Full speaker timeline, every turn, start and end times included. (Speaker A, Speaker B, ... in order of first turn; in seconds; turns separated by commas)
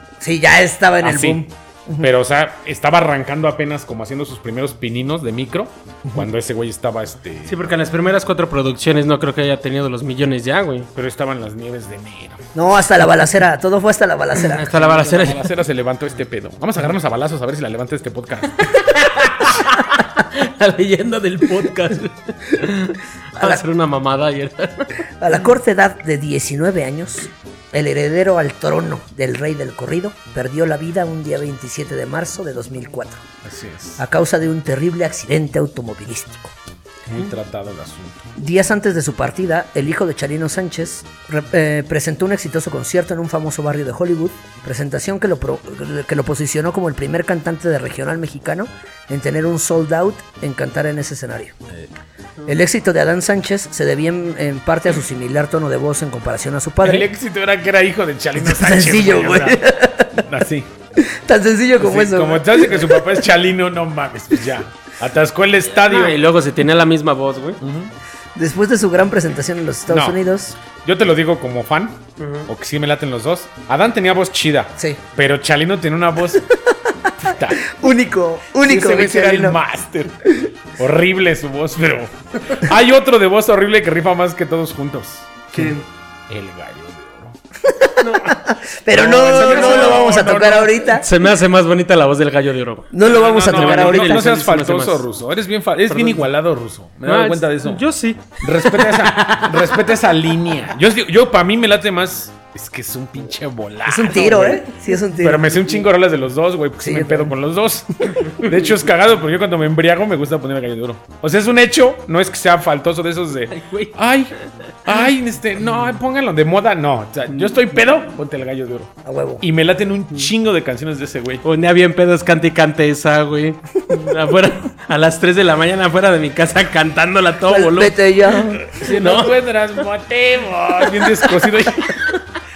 Speaker A: 0.2-2.1, Speaker B: 1.0-1.4, Speaker B: 2.0-7.6, Speaker C: 7.5-10.9, Speaker B: 10.9-12.4, Speaker A: 12.5-14.7, Speaker C: 14.5-15.5, Speaker B: 14.6-18.7, Speaker C: 18.7-24.9, Speaker A: 23.4-23.6, Speaker A: 25.2-33.2, Speaker B: 33.4-34.0, Speaker A: 34.0-36.5, Speaker B: 37.1-38.2, Speaker A: 38.4-51.6, Speaker A: 52.5-57.1, Speaker B: 56.8-60.7, Speaker A: 58.4-60.2, Speaker A: 61.0-63.2, Speaker B: 61.8-66.2, Speaker C: 65.8-67.6, Speaker B: 67.6-67.9, Speaker A: 68.3-70.6, Speaker B: 69.9-76.5, Speaker C: 72.2-72.5, Speaker A: 76.7-79.6, Speaker B: 77.2-77.7, Speaker B: 78.6-85.7, Speaker C: 85.5-85.8, Speaker B: 86.3-87.4, Speaker A: 87.6-91.0, Speaker C: 88.0-88.4, Speaker B: 88.9-90.9, Speaker C: 89.1-90.1, Speaker C: 90.9-95.0, Speaker A: 92.9-94.3, Speaker B: 93.0-97.8, Speaker C: 95.9-96.2, Speaker C: 97.0-99.8, Speaker B: 98.4-104.6, Speaker A: 103.8-105.6, Speaker C: 104.1-104.6, Speaker B: 105.2-114.3, Speaker A: 106.8-107.3, Speaker C: 113.5-113.9, Speaker B: 114.8-121.4, Speaker C: 117.3-117.7, Speaker A: 119.0-119.4, Speaker C: 121.4-129.4, Speaker A: 127.5-128.7, Speaker B: 128.6-132.1